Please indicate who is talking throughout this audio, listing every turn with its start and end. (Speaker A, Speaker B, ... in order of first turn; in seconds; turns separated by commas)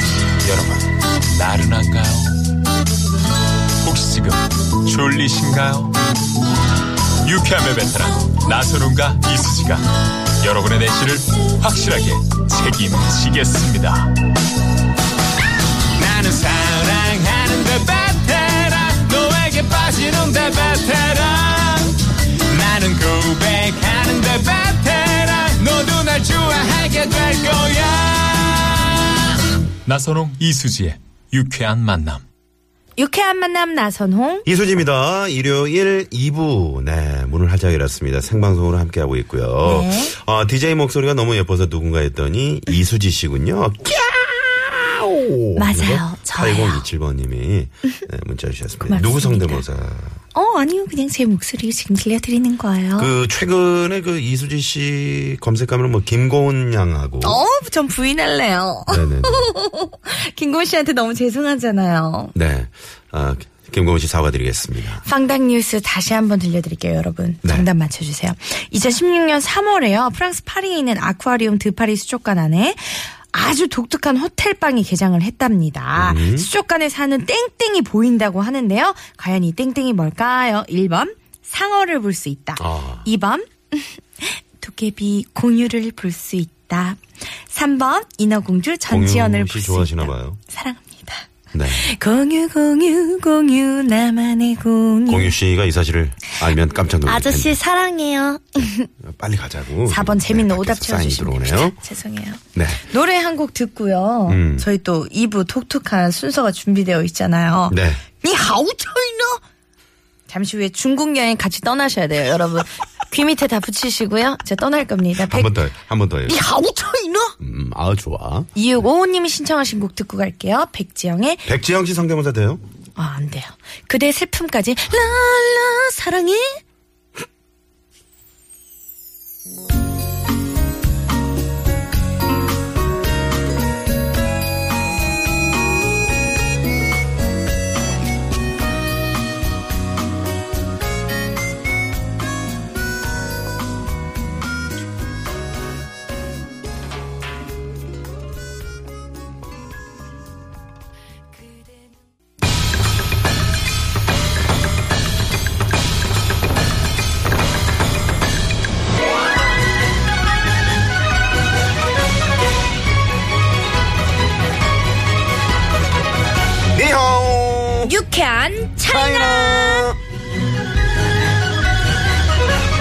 Speaker A: 0.4-2.4, Speaker A: 3.8-6.0, Speaker A: 7.2-14.2, Speaker A: 16.0-32.2, Speaker B: 33.0-34.5, Speaker C: 34.5-50.2, Speaker B: 39.6-40.1, Speaker B: 45.6-46.9, Speaker B: 48.9-49.6, Speaker B: 50.4-53.1, Speaker C: 53.0-57.4, Speaker B: 57.2-62.3, Speaker C: 58.9-59.5, Speaker C: 62.4-65.0, Speaker B: 65.0-95.3, Speaker C: 75.9-76.5, Speaker C: 82.6-83.1, Speaker C: 88.9-90.4, Speaker C: 91.5-91.9, Speaker C: 95.1-97.6, Speaker B: 97.1-98.9, Speaker C: 99.0-101.8, Speaker B: 99.9-109.4, Speaker C: 102.5-102.9, Speaker C: 104.3-104.7, Speaker C: 107.7-108.0, Speaker B: 110.3-115.6, Speaker C: 115.2-116.4, Speaker B: 116.3-117.4, Speaker C: 117.4-118.5, Speaker B: 118.5-121.5, Speaker C: 121.5-122.6, Speaker B: 123.0-126.6, Speaker C: 166.7-167.9, Speaker B: 167.8-169.9, Speaker C: 168.8-170.0